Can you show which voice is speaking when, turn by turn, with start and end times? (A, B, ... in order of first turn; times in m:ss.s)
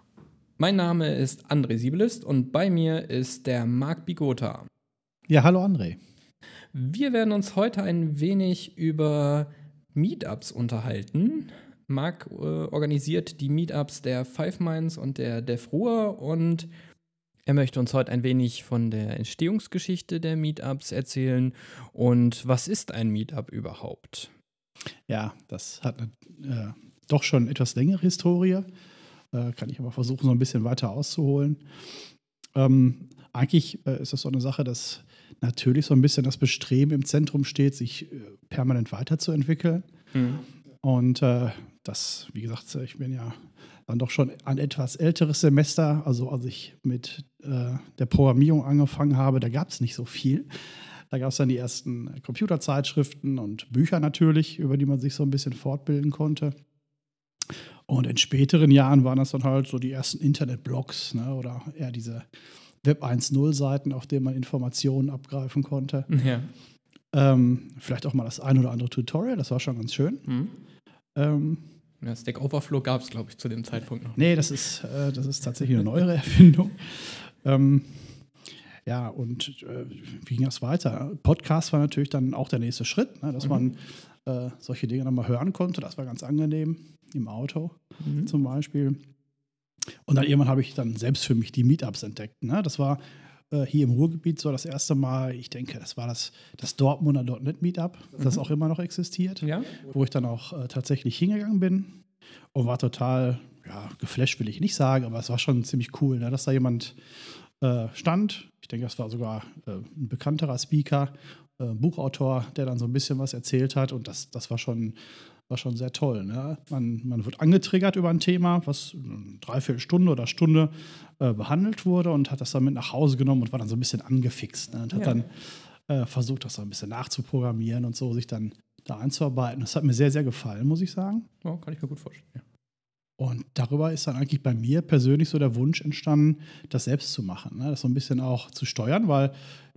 0:00.6-0:04.7 A
0:05.3-0:06.0 B
0:06.7-0:16.7 A
0:17.5-0:24.3 A
0:25.1-0:28.7 B
0:29.3-0:31.6 B
0:32.6-0:39.8 B
0:40.1-0:40.4 A
0:40.8-0:56.6 B
0:57.9-1:02.3 B
1:02.8-1:06.1 B
1:06.1-1:06.5 A
1:07.1-1:10.3 B
1:10.3-1:10.5 A
1:11.2-1:11.6 B
1:12.0-1:14.4 A
1:14.2-1:18.3 B
1:18.9-1:29.0 B
1:28.0-1:28.3 A
1:30.1-1:41.9 B
1:39.4-1:39.8 A
1:42.5-1:47.0 B
1:47.6-1:55.0 B
1:55.5-2:05.3 B
2:04.9-2:05.2 A
2:05.9-2:11.3 B
2:11.4-2:12.4 A
2:13.2-2:19.3 B